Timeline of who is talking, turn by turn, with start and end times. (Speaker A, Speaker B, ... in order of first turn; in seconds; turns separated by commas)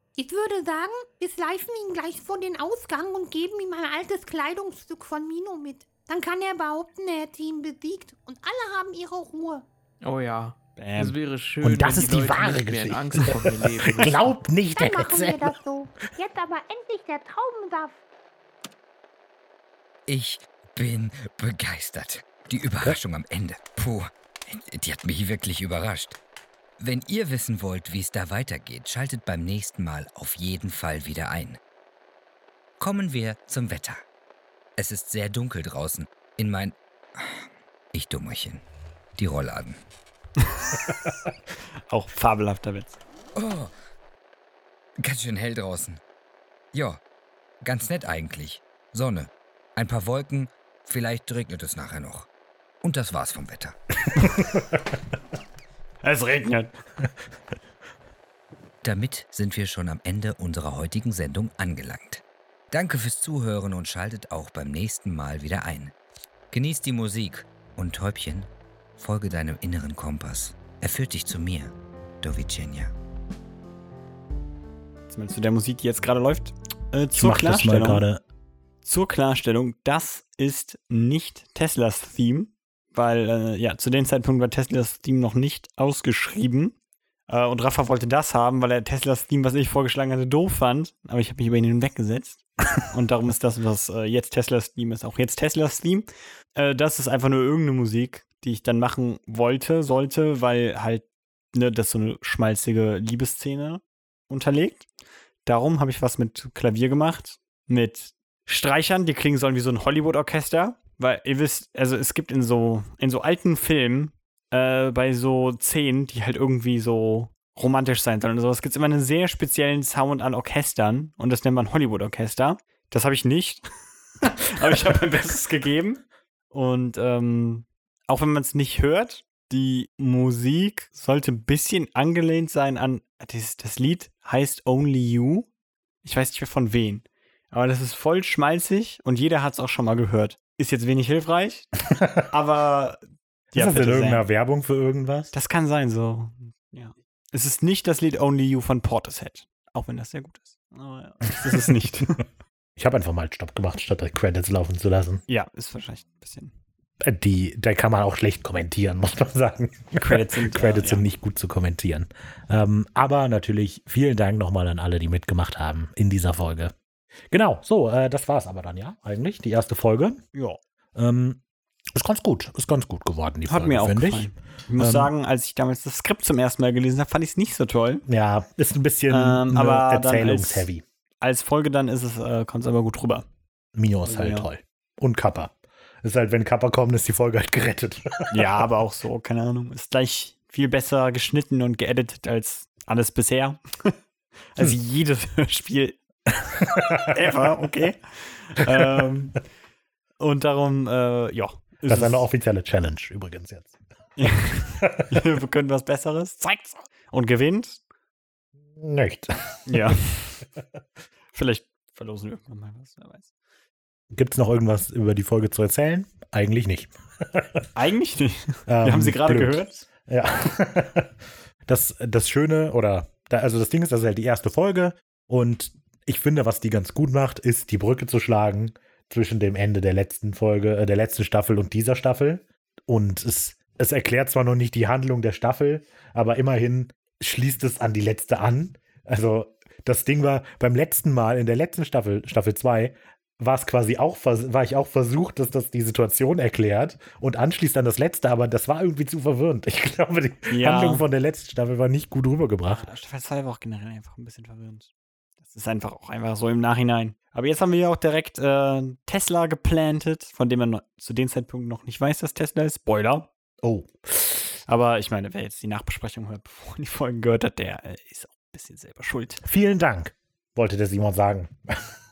Speaker A: 0.2-9.7, Speaker B: 10.0-14.3, Speaker C: 10.8-11.2, Speaker D: 11.6-15.6, Speaker A: 14.8-18.0, Speaker E: 20.1-26.2, Speaker E: 26.8-31.6, Speaker E: 32.8-34.0, Speaker E: 34.8-38.6, Speaker E: 39.2-39.8, Speaker C: 40.4-40.8, Speaker C: 41.9-43.0, Speaker E: 43.4-43.7, Speaker E: 45.0-46.0, Speaker E: 46.7-47.0, Speaker E: 47.6-52.3, Speaker E: 52.8-54.2, Speaker C: 56.0-56.7, Speaker E: 58.8-65.9, Speaker E: 66.5-72.9, Speaker C: 75.1-78.0, Speaker D: 77.2-78.2, Speaker C: 78.8-86.8, Speaker C: 87.3-104.9, Speaker C: 105.5-123.6, Speaker C: 124.2-135.5, Speaker C: 136.0-144.2, Speaker D: 143.5-145.3, Speaker C: 145.3-152.2, Speaker D: 152.8-155.2, Speaker C: 155.3-156.5, Speaker D: 157.0-166.7, Speaker C: 159.9-161.1, Speaker D: 167.3-170.2, Speaker C: 170.3-170.6, Speaker D: 170.9-171.4, Speaker D: 171.9-175.1, Speaker C: 173.5-178.1, Speaker D: 178.1-180.8, Speaker C: 179.1-180.7, Speaker C: 181.2-183.3, Speaker D: 183.8-188.4, Speaker C: 184.1-184.5, Speaker C: 188.3-194.0, Speaker C: 194.5-196.0, Speaker D: 196.6-197.4, Speaker C: 197.0-199.4, Speaker D: 198.7-199.1, Speaker C: 200.2-202.3, Speaker D: 201.9-203.7, Speaker C: 204.2-207.8, Speaker D: 204.8-205.3, Speaker D: 208.8-210.0, Speaker C: 209.7-210.4, Speaker C: 211.3-213.3, Speaker D: 214.1-217.7, Speaker C: 217.8-219.8, Speaker D: 218.7-221.1, Speaker D: 221.7-252.8, Speaker C: 250.5-251.0, Speaker C: 252.8-254.9, Speaker C: 255.4-263.3, Speaker D: 263.6-263.9, Speaker C: 264.7-269.4, Speaker D: 269.4-271.9